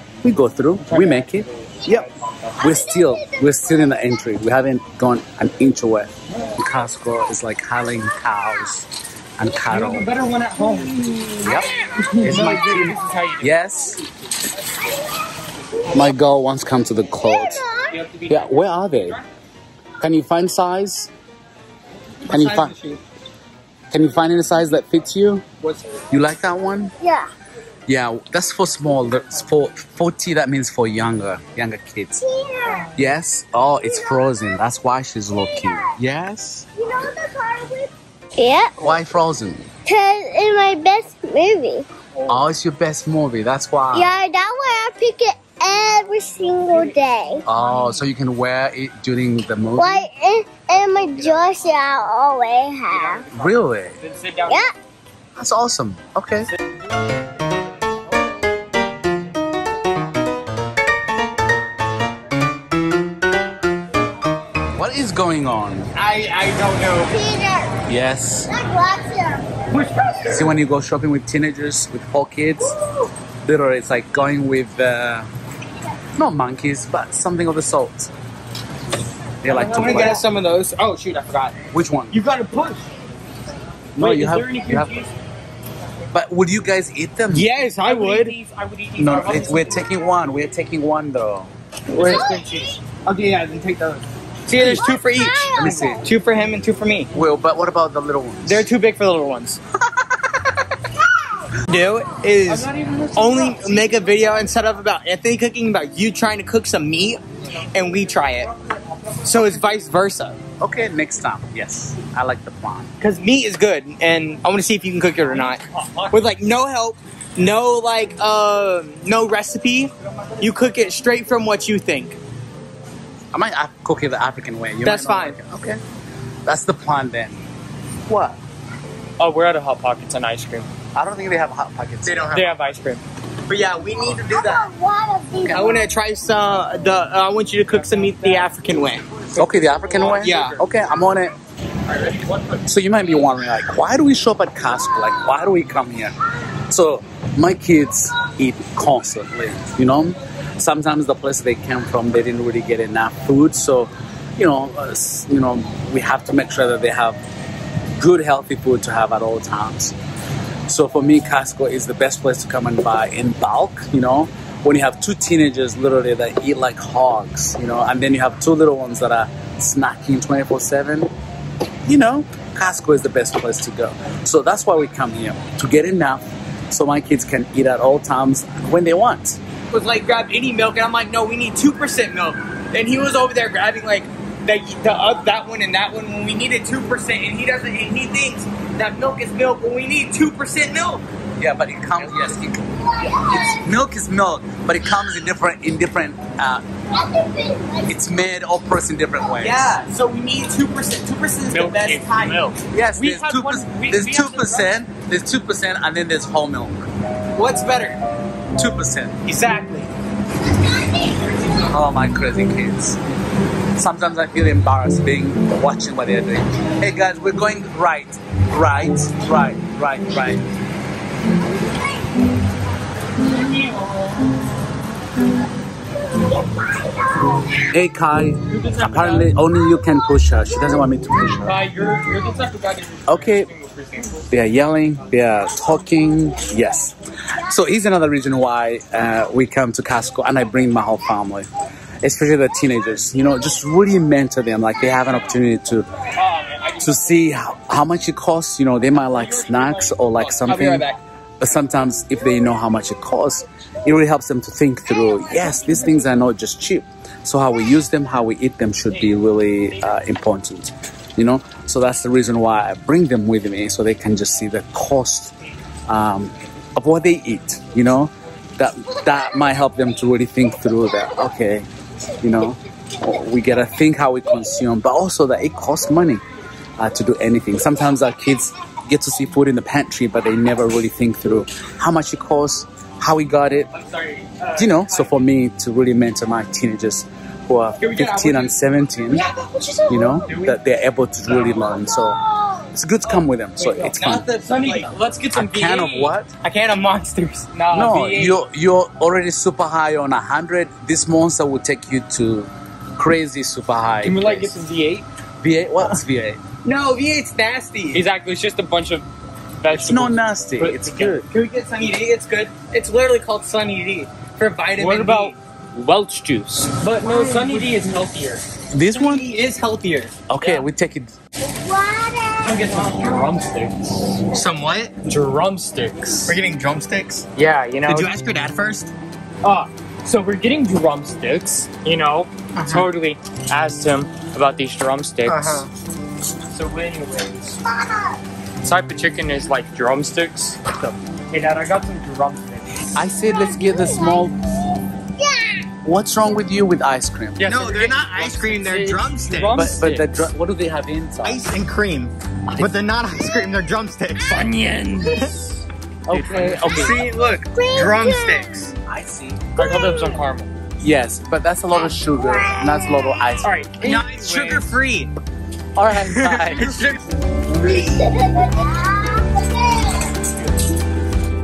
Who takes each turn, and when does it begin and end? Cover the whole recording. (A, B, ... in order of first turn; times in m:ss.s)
0:00.2-0:02.1 A
0:00.8-0:02.7 B
0:02.6-0:10.1 A
0:02.7-0:03.5 C
0:09.7-0:11.7 B
0:11.4-0:14.0 A
0:12.0-0:12.8 D
0:12.2-0:13.5 B
0:15.8-0:17.6 A
0:17.2-0:17.9 C
0:18.0-0:18.2 B
0:18.3-0:19.2 A
0:20.0-0:21.1 A
0:22.3-0:22.8 A
0:22.3-0:23.0 D
0:23.9-0:25.4 A
0:26.1-0:26.9 A
0:27.0-0:27.3 C
0:27.9-0:32.2 A
0:32.2-0:32.9 C
0:32.9-0:36.7 A
0:33.9-0:34.2 C
0:35.4-0:36.0 C
0:36.8-0:38.8 C
0:38.8-0:39.7 A
0:39.8-0:41.9 C
0:42.3-0:44.1 A
0:43.9-0:47.4 C
0:47.4-0:50.1 A
0:47.7-0:48.0 B
0:49.8-0:53.2 C
0:51.0-0:51.6 B
0:52.9-0:54.7 B
0:53.3-0:54.0 A
0:55.4-0:56.5 A
1:04.7-1:05.9 A
1:06.0-1:07.2 D
1:07.0-1:07.8 C
1:07.8-1:08.5 A
1:08.5-1:09.6 C
1:09.7-1:10.5 B
1:10.3-1:12.8 A
1:13.4-1:15.3 A
1:16.2-1:18.1 A
1:19.4-1:20.2 A
1:19.5-1:21.6 D
1:19.5-1:20.2 B
1:21.7-1:22.2 A
1:22.1-1:22.8 D
1:24.0-1:25.0 A
1:24.0-1:25.1 B
1:26.1-1:27.5 A
1:27.3-1:28.4 D
1:27.8-1:29.8 B
1:29.0-1:31.5 A
1:31.9-1:37.1 D
1:31.9-1:32.4 B
1:32.0-1:32.6 C
1:34.6-1:36.1 C
1:35.5-1:36.0 A
1:37.1-1:38.7 A
1:38.4-1:39.6 D
1:39.9-1:40.5 A
1:41.6-1:47.2 D
1:42.4-1:44.2 B
1:47.7-1:48.5 D
1:49.2-1:50.4 D
1:50.6-1:52.9 A
1:53.0-2:02.2 D
1:55.3-1:56.2 B
2:03.3-2:05.8 A
2:04.8-2:05.4 D
2:06.4-2:07.4 A
2:08.1-2:08.4 A
2:09.2-2:10.7 B
2:10.9-2:12.3 A
2:12.0-2:12.6 D
2:12.3-2:13.0 B
2:13.5-2:14.7 D
2:14.3-2:15.9 C
2:15.4-2:15.7 A
2:15.5-2:19.0 D
2:17.7-2:20.6 B
2:19.4-2:21.3 A
2:20.1-2:20.6 D
2:21.9-2:22.7 B
2:22.6-2:37.2 A
2:38.0-2:40.0 A
2:40.7-2:51.1 A
2:51.8-2:59.4 A
2:59.7-3:11.0 D
3:11.4-3:16.6 A
3:12.0-3:12.3 B
3:12.9-3:13.6 C
3:16.9-3:17.9 C
3:17.8-3:19.8 A
3:19.3-3:22.4 D
3:21.5-3:24.7 B
3:22.7-3:26.9 A
3:27.3-3:28.0 D
3:28.5-3:29.2 A
3:29.2-3:29.9 D
3:31.6-3:33.0 A
3:33.8-3:40.4 A
3:43.3-3:44.2 B
3:47.6-3:51.6 A
3:48.5-3:49.3 B
3:51.4-3:54.3 B
3:53.1-3:53.5 A
3:54.3-4:01.5 A
4:02.0-4:05.9 A
4:06.2-4:07.2 B
4:06.8-4:10.8 A
4:09.1-4:10.7 B
4:10.4-4:11.0 D
4:11.4-4:25.3 A
4:18.9-4:19.3 B
4:25.9-4:31.7 A
4:32.2-4:36.2 A
4:36.8-4:43.7 A
4:43.7-4:45.2 B
4:44.6-4:49.3 A
4:47.8-4:48.5 B
4:49.4-4:49.7 C
4:49.9-4:52.2 A
4:50.1-4:50.6 B
4:51.3-4:51.7 B
4:52.2-4:52.7 C
4:52.7-4:54.3 A
4:53.0-4:56.2 B
4:54.4-4:54.9 D
4:55.3-4:56.3 A
4:56.4-4:57.5 D
4:57.5-4:58.4 B
4:57.7-5:04.6 A
5:04.0-5:05.0 B
5:05.4-5:06.4 A
5:06.6-5:08.0 D
5:07.9-5:09.1 B
5:09.6-5:11.2 B
5:09.7-5:11.2 A
5:11.3-5:15.4 D
5:14.8-5:18.4 B
5:17.0-5:17.7 D
5:18.7-5:19.2 A
5:18.9-5:20.1 D
5:20.3-5:21.1 A
5:21.5-5:22.8 C
5:22.4-5:24.2 B
5:22.6-5:23.0 D
5:24.3-5:24.9 D
5:25.0-5:26.3 B
5:26.2-5:27.2 D
5:27.3-5:28.1 B
5:27.8-5:28.9 D
5:29.4-5:35.6 B
5:32.5-5:32.9 D
5:35.2-5:35.7 D
5:36.5-5:37.6 B
5:38.6-5:42.9 B
5:42.9-5:44.4 A
5:43.3-5:45.7 C
5:45.8-5:47.4 A
5:47.4-5:50.2 B
5:47.4-5:49.6 D
5:49.5-5:51.4 A
5:51.2-5:54.5 D
5:54.2-5:57.0 B
5:56.1-5:57.0 A
5:56.6-5:58.7 D
5:57.5-5:58.7 C
5:58.8-5:59.6 A
5:59.6-6:00.5 B
6:00.8-6:03.7 A
6:02.0-6:03.2 C
6:03.4-6:04.7 B
6:03.8-6:05.1 D
6:05.8-6:06.8 A
6:06.0-6:07.0 D
6:07.6-6:10.2 C